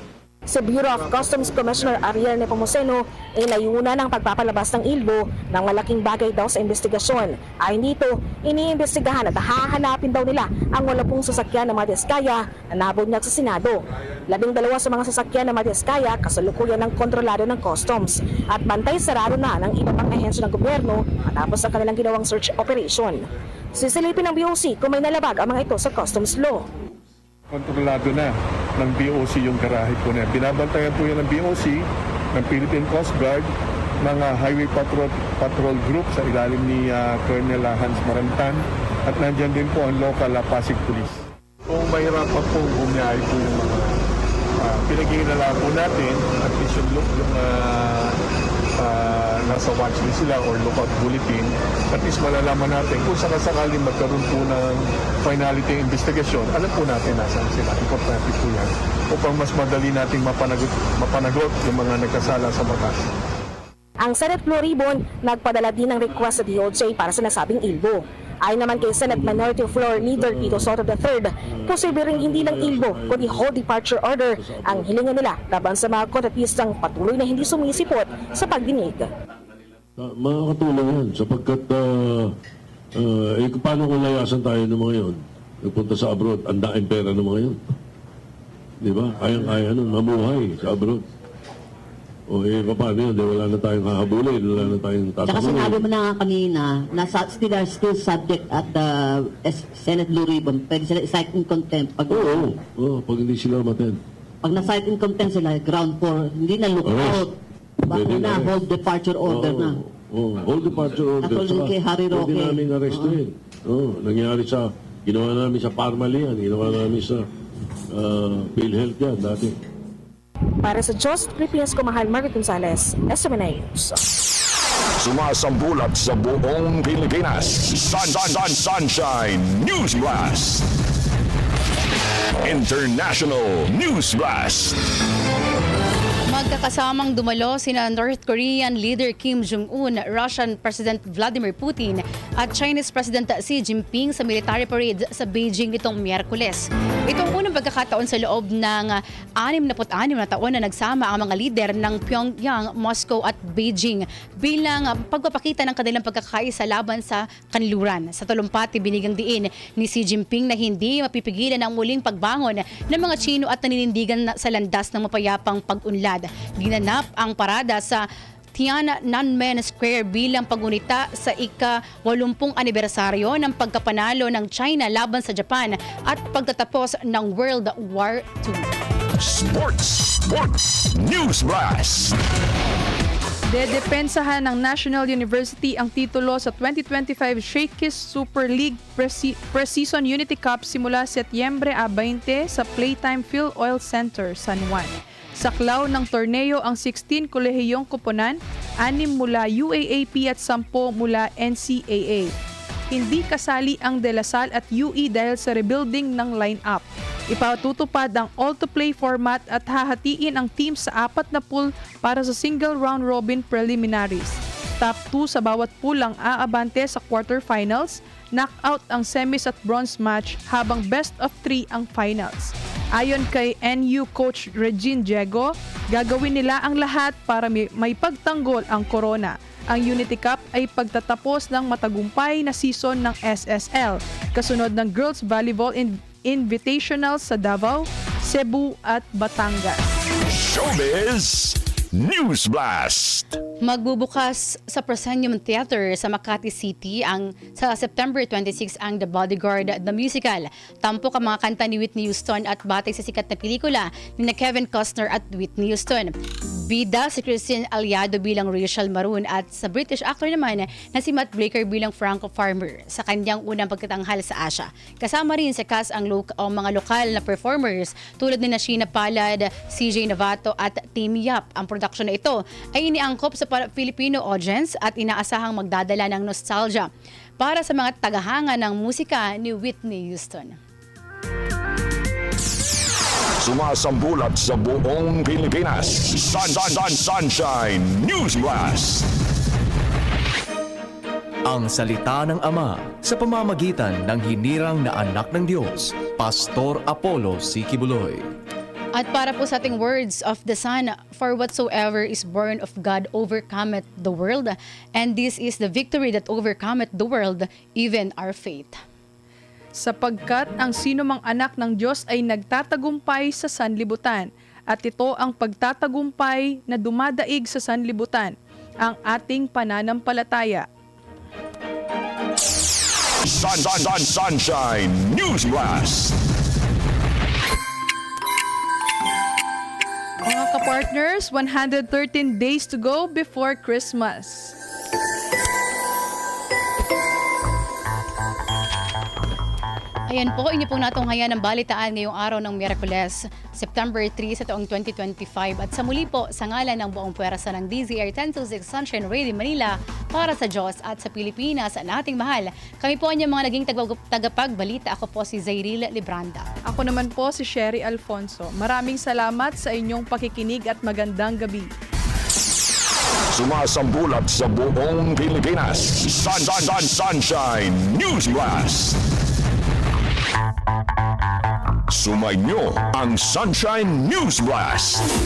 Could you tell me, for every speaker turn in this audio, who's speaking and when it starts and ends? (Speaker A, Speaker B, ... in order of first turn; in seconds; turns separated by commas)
Speaker A: 0.5-26.7, Speaker B: 27.5-44.0, Speaker B: 44.6-48.2, Speaker B: 48.8-63.1, Speaker A: 64.0-79.1, Speaker C: 68.8-70.8, Speaker C: 71.5-73.6, Speaker C: 74.4-75.0, Speaker C: 80.0-82.3, Speaker C: 83.0-87.6, Speaker C: 88.8-91.0, Speaker C: 92.3-95.8, Speaker D: 95.2-102.4, Speaker C: 102.1-104.0, Speaker D: 104.4-107.3, Speaker C: 106.8-107.3, Speaker D: 107.9-109.8, Speaker C: 107.9-108.6, Speaker C: 109.2-117.3, Speaker D: 111.2-113.2, Speaker C: 117.9-119.5, Speaker A: 120.6-124.1, Speaker E: 125.0-130.7, Speaker E: 132.4-134.8, Speaker F: 136.3-168.0, Speaker F: 168.6-178.7, Speaker E: 179.2-182.2, Speaker G: 183.5-202.3, Speaker G: 202.9-239.9, Speaker E: 240.2-243.3, Speaker F: 243.6-280.6, Speaker E: 283.4-289.1, Speaker H: 291.5-298.3, Speaker F: 298.9-308.8, Speaker G: 309.8-320.7, Speaker E: 323.2-326.2, Speaker G: 330.2-334.5, Speaker F: 340.1-356.5, Speaker G: 356.6-361.7, Speaker E: 363.3-369.0, Speaker E: 371.9-375.1